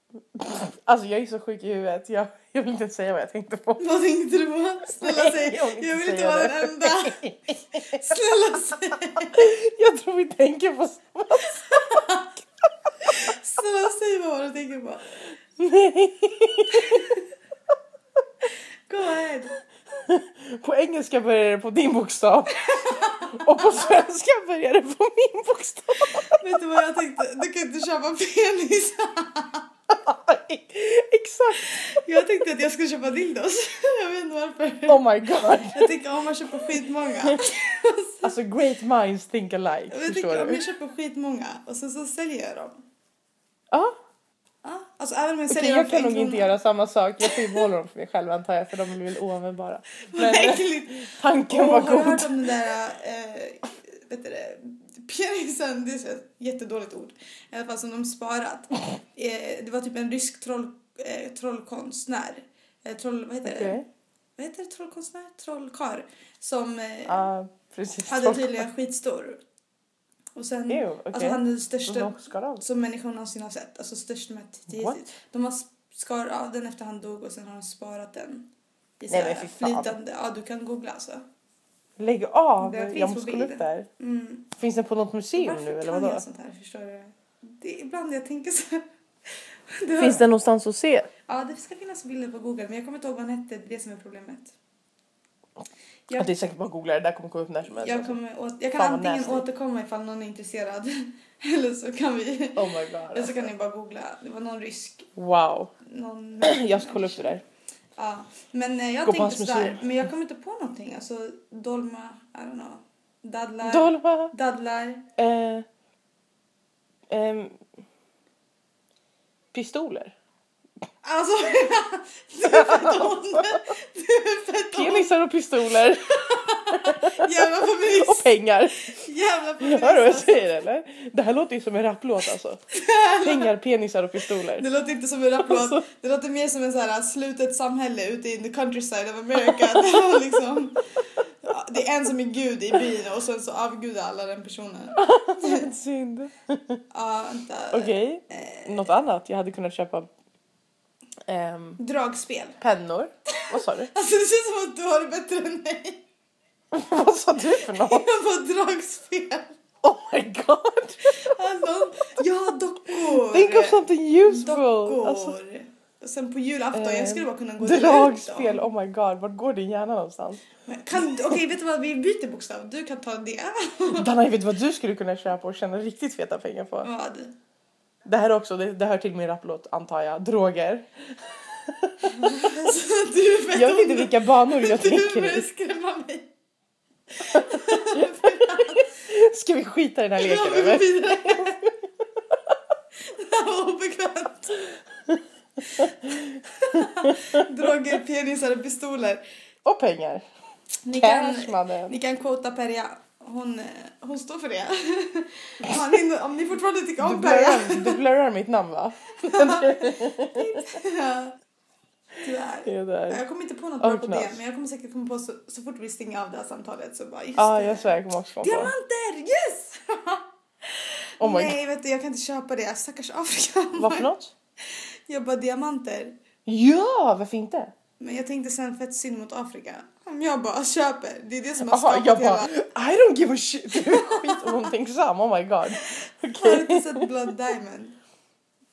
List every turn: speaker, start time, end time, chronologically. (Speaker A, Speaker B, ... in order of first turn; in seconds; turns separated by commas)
Speaker A: 0.3-3.9, Speaker B: 3.8-7.2, Speaker A: 4.9-8.1, Speaker B: 7.8-9.5, Speaker A: 9.3-12.1, Speaker B: 11.6-12.3, Speaker B: 13.0-15.1, Speaker A: 15.6-17.1, Speaker B: 16.7-17.2, Speaker B: 18.9-19.6, Speaker A: 19.9-26.4, Speaker B: 22.6-23.8, Speaker B: 26.3-29.7, Speaker A: 29.9-31.8, Speaker B: 31.6-35.0, Speaker A: 34.9-36.0, Speaker B: 35.7-38.4, Speaker A: 38.2-40.6, Speaker B: 39.9-42.8, Speaker A: 43.7-44.0, Speaker B: 44.6-46.6, Speaker A: 45.5-52.5, Speaker B: 47.2-47.6, Speaker B: 50.1-63.8, Speaker A: 63.5-63.9, Speaker B: 64.4-67.3, Speaker A: 67.1-68.7, Speaker B: 68.1-69.4, Speaker B: 70.4-78.5, Speaker A: 70.7-72.6, Speaker A: 74.7-75.1, Speaker B: 79.0-81.3, Speaker A: 79.1-80.0, Speaker A: 82.0-83.9, Speaker B: 82.6-84.5, Speaker A: 84.5-86.2, Speaker B: 85.4-90.2, Speaker A: 90.0-91.1, Speaker B: 91.3-94.5, Speaker A: 96.1-98.2, Speaker B: 97.7-105.1, Speaker A: 98.8-99.5, Speaker A: 102.6-103.5, Speaker A: 105.2-105.7, Speaker B: 105.8-107.4, Speaker A: 106.4-107.4, Speaker B: 108.0-115.1, Speaker A: 109.0-109.8, Speaker A: 113.6-114.3, Speaker A: 115.2-115.7, Speaker A: 117.1-117.6, Speaker A: 119.5-120.1, Speaker B: 121.0-125.1, Speaker A: 122.4-123.5, Speaker A: 124.7-126.2, Speaker B: 126.1-128.3, Speaker A: 126.7-129.0, Speaker B: 128.9-130.6, Speaker A: 129.6-132.6, Speaker B: 132.7-133.5, Speaker A: 133.2-134.7, Speaker B: 134.6-140.8, Speaker A: 135.4-135.8, Speaker B: 141.4-145.7, Speaker A: 145.0-146.8, Speaker B: 146.9-148.9, Speaker A: 147.7-150.1, Speaker A: 151.3-151.8, Speaker B: 151.8-152.6, Speaker A: 152.6-153.9, Speaker B: 153.3-156.0, Speaker A: 156.7-158.1, Speaker B: 157.6-159.6, Speaker A: 159.8-161.3, Speaker B: 161.1-168.6, Speaker A: 163.0-165.4, Speaker A: 166.7-170.4, Speaker B: 170.7-174.1, Speaker A: 173.9-176.9, Speaker B: 176.8-177.3, Speaker A: 178.1-182.3, Speaker B: 182.0-186.3, Speaker A: 183.5-185.5, Speaker B: 187.2-188.9, Speaker A: 187.3-191.7, Speaker B: 190.2-191.7, Speaker B: 193.0-194.7, Speaker B: 195.7-199.2, Speaker A: 195.8-196.1, Speaker A: 197.0-197.4, Speaker A: 199.7-200.2, Speaker B: 200.8-208.0, Speaker A: 200.9-202.0, Speaker A: 207.0-210.6, Speaker B: 209.2-211.4, Speaker B: 212.2-224.1, Speaker A: 212.7-213.2, Speaker A: 213.8-214.4, Speaker A: 217.4-218.7, Speaker A: 221.2-221.6, Speaker A: 223.8-224.3, Speaker B: 224.6-226.2, Speaker A: 226.5-227.7, Speaker B: 228.0-232.6, Speaker A: 231.7-237.1, Speaker B: 233.7-234.7, Speaker B: 235.7-238.0